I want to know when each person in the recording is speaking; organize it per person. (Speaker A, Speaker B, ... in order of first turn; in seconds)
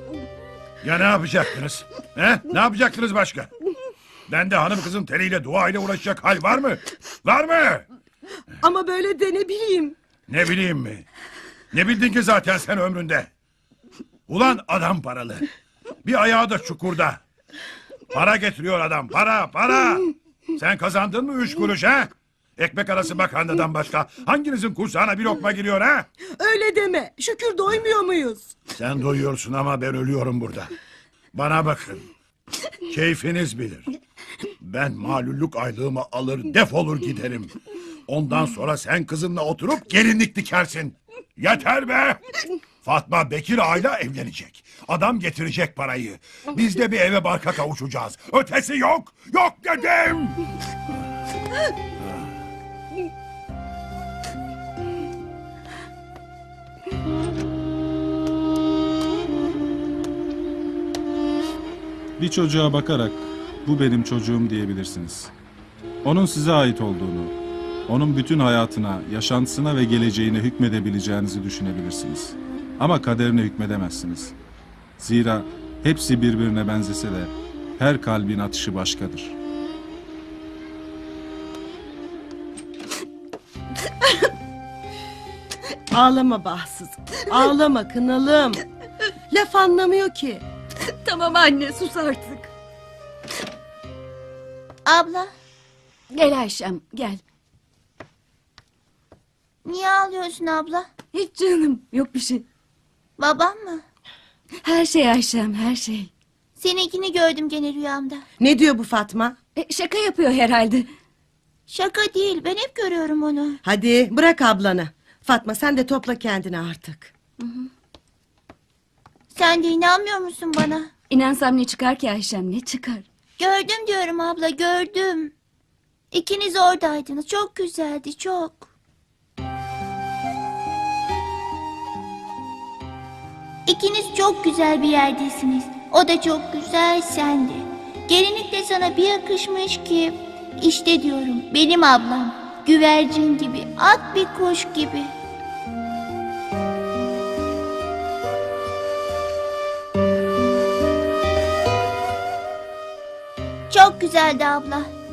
Speaker A: 0.8-3.5, 4.3-7.8, 10.3-11.1, 11.7-13.3, 14.3-15.4, 16.0-17.2, 18.1-26.1, 28.7-30.7, 31.3-32.0, 32.9-33.9, 34.6-37.5, 38.1-42.2, 42.8-50.4
Speaker B: 8.6-9.9, 26.4-28.5, 85.9-88.5, 89.3-90.4, 108.4-109.3, 113.6-117.1
Speaker C: 62.2-65.3, 66.0-67.3, 67.9-74.3, 75.0-79.3
Speaker D: 90.8-92.5, 96.1-97.2, 101.1-102.4, 104.6-106.1, 109.5-110.9, 117.4-117.7, 121.1-123.0
Speaker E: 94.8-95.3, 99.6-100.9, 103.2-103.8, 106.6-108.2, 111.7-113.6, 119.3-120.9, 123.4-125.3, 126.1-128.7, 133.7-145.1, 153.7-154.9